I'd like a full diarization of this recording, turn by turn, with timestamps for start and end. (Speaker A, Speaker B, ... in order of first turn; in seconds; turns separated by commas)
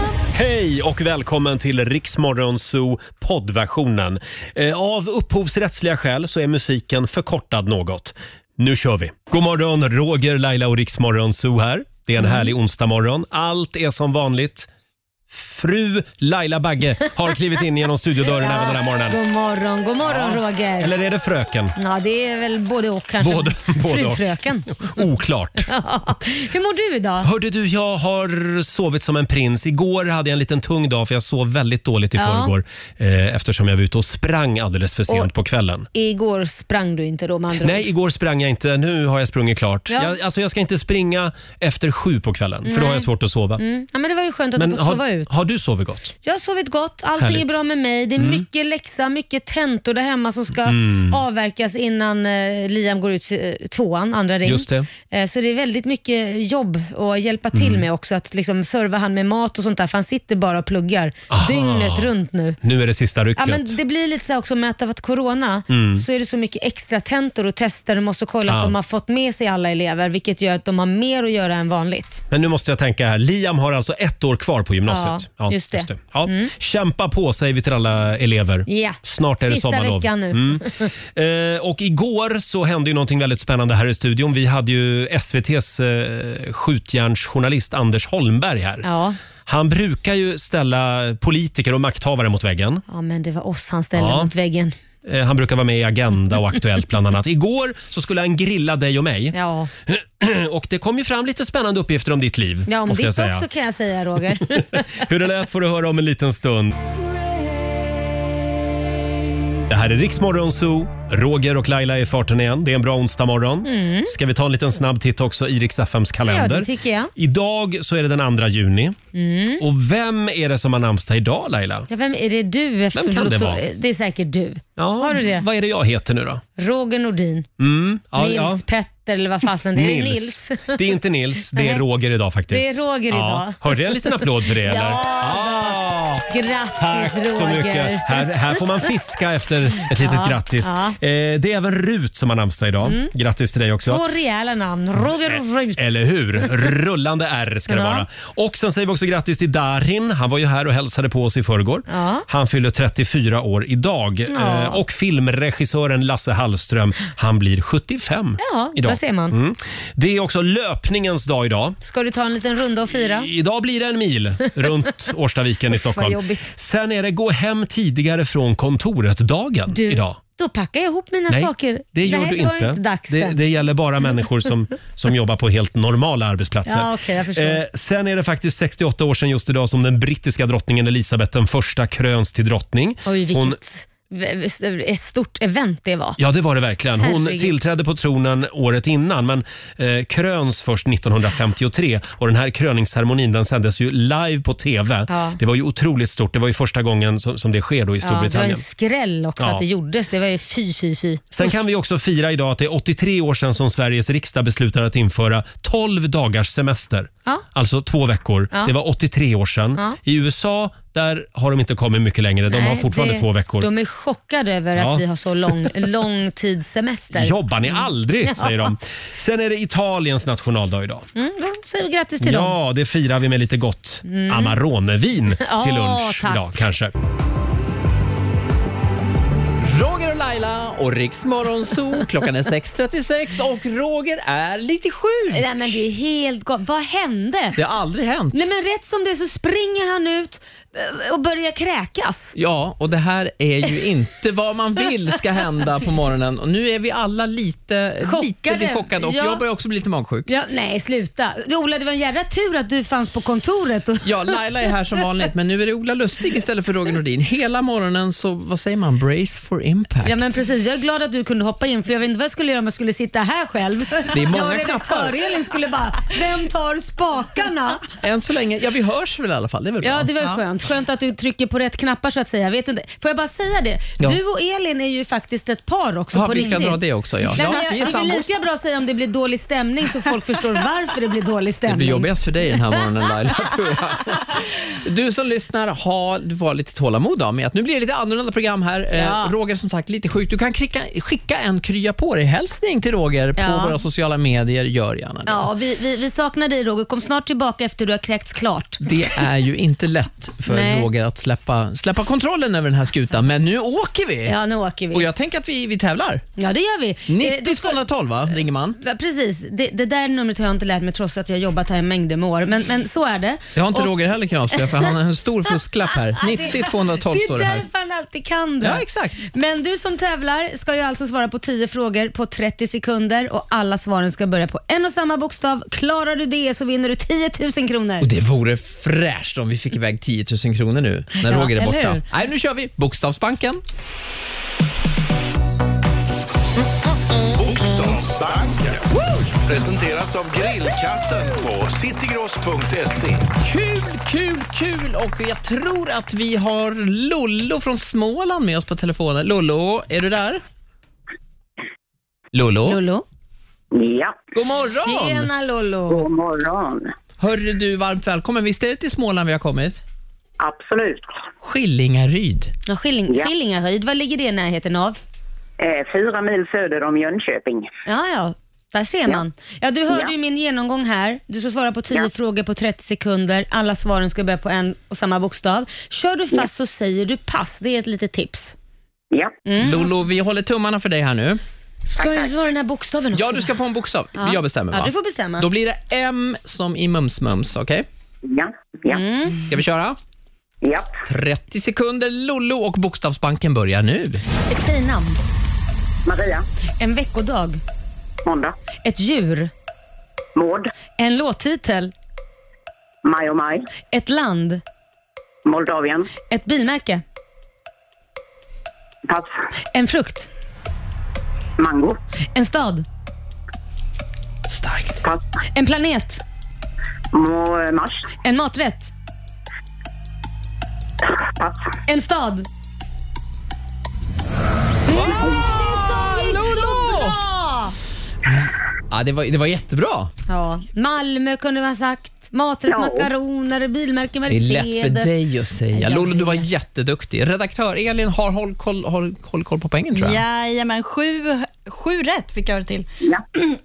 Speaker A: 0.3-14.7, Speaker B: 12.2-12.5, Speaker A: 15.3-19.2, Speaker B: 18.4-20.9, Speaker A: 20.1-21.8, Speaker B: 21.8-25.0, Speaker A: 23.2-25.7, Speaker B: 25.6-27.3, Speaker A: 27.2-35.9, Speaker B: 32.2-32.5, Speaker B: 35.9-37.9, Speaker A: 37.6-43.6, Speaker B: 39.9-40.1, Speaker B: 42.6-45.3, Speaker A: 44.5-46.1, Speaker B: 46.2-62.6, Speaker A: 47.2-47.6, Speaker A: 48.2-48.4, Speaker A: 50.6-51.2, Speaker A: 54.4-54.9, Speaker A: 57.5-57.9, Speaker A: 61.3-63.8, Speaker B: 63.4-72.2, Speaker A: 65.7-66.0, Speaker A: 68.5-68.8, Speaker A: 72.3-88.8, Speaker B: 74.9-76.5, Speaker B: 78.7-80.9, Speaker B: 88.8-89.2, Speaker A: 89.5-92.8, Speaker B: 92.9-94.7, Speaker A: 94.0-94.3, Speaker A: 95.0-99.3, Speaker B: 99.3-99.7, Speaker A: 99.9-103.5, Speaker B: 102.7-104.6, Speaker A: 104.2-106.8, Speaker A: 109.7-119.0, Speaker B: 113.6-114.1, Speaker B: 116.2-117.1, Speaker B: 119.1-119.6, Speaker A: 119.6-121.9, Speaker B: 121.9-125.5, Speaker A: 122.9-123.6, Speaker A: 124.8-126.4, Speaker B: 126.6-127.5, Speaker A: 127.6-128.6, Speaker B: 128.2-130.8, Speaker A: 129.7-144.0, Speaker B: 131.5-131.8, Speaker B: 132.5-138.9, Speaker B: 139.9-141.0, Speaker B: 142.8-143.1, Speaker B: 143.8-146.5, Speaker A: 145.3-161.8, Speaker B: 147.7-148.0, Speaker B: 151.9-152.2, Speaker B: 154.3-154.8, Speaker B: 158.4-159.4, Speaker B: 161.8-163.3, Speaker A: 163.0-170.2, Speaker B: 165.7-166.5, Speaker B: 169.7-173.4, Speaker A: 171.3-183.6, Speaker B: 176.7-177.6, Speaker B: 183.1-186.2, Speaker A: 186.2-198.6, Speaker B: 187.0-187.5, Speaker B: 195.1-195.4, Speaker B: 198.0-201.5, Speaker A: 199.4-199.6, Speaker A: 201.3-213.7, Speaker B: 212.5-218.7, Speaker A: 214.8-215.0, Speaker A: 217.1-221.1, Speaker B: 221.1-222.5, Speaker A: 222.2-226.9, Speaker B: 224.0-224.6, Speaker B: 225.3-226.4, Speaker C: 229.6-235.8, Speaker B: 235.3-237.6, Speaker C: 237.6-238.4, Speaker B: 238.3-242.3, Speaker C: 242.3-250.3, Speaker B: 248.0-249.4, Speaker B: 250.3-254.3, Speaker C: 254.0-260.1, Speaker B: 260.0-267.9, Speaker C: 264.1-265.2, Speaker C: 268.0-270.2, Speaker B: 269.8-282.1, Speaker C: 276.1-278.3, Speaker C: 281.7-295.5, Speaker B: 288.9-289.3, Speaker B: 293.4-293.8, Speaker B: 295.3-298.8, Speaker C: 298.8-304.4, Speaker B: 300.5-300.9, Speaker B: 304.2-305.1, Speaker C: 304.9-306.2, Speaker B: 306.4-307.8, Speaker C: 307.1-308.8, Speaker B: 308.8-313.9, Speaker C: 313.6-317.6, Speaker B: 314.5-314.9, Speaker B: 316.1-328.1, Speaker C: 318.6-319.2, Speaker C: 328.0-333.6, Speaker B: 331.2-332.0, Speaker D: 337.4-343.3, Speaker C: 343.4-350.4, Speaker C: 352.3-352.8, Speaker B: 352.7-353.0, Speaker E: 353.7-354.2, Speaker C: 354.3-355.3, Speaker B: 354.8-356.0, Speaker E: 355.9-356.9, Speaker C: 357.2-359.8, Speaker E: 360.4-361.2, Speaker C: 361.4-362.5, Speaker B: 362.7-365.0, Speaker E: 365.6-367.7, Speaker B: 367.9-378.5, Speaker E: 379.1-379.4, Speaker B: 379.4-380.0, Speaker C: 379.6-381.4, Speaker B: 381.9-383.5, Speaker E: 382.0-382.3, Speaker C: 383.1-387.9, Speaker B: 384.1-385.4, Speaker E: 388.2-389.0, Speaker B: 388.9-389.4, Speaker C: 389.5-390.0, Speaker E: 390.6-390.9, Speaker C: 391.1-394.2, Speaker B: 394.5-395.2, Speaker E: 396.1-396.4, Speaker B: 396.8-397.6, Speaker E: 398.2-398.5, Speaker B: 398.8-399.5, Speaker E: 400.4-400.7, Speaker B: 401.0-401.9, Speaker E: 403.0-403.7, Speaker B: 403.9-404.6, Speaker E: 405.4-406.1, Speaker B: 406.3-407.0, Speaker E: 409.1-409.4, Speaker B: 409.7-410.3, Speaker E: 411.6-412.0, Speaker B: 412.3-412.8, Speaker C: 414.5-415.0, Speaker B: 415.5-416.2, Speaker E: 417.1-418.1, Speaker B: 418.2-418.9, Speaker E: 421.0-421.7, Speaker B: 421.9-422.5, Speaker B: 424.9-427.7, Speaker C: 424.9-427.2, Speaker C: 428.3-430.1, Speaker B: 430.3-435.1, Speaker E: 432.7-433.1, Speaker C: 434.3-440.2, Speaker B: 435.7-436.4, Speaker F: 439.9-442.9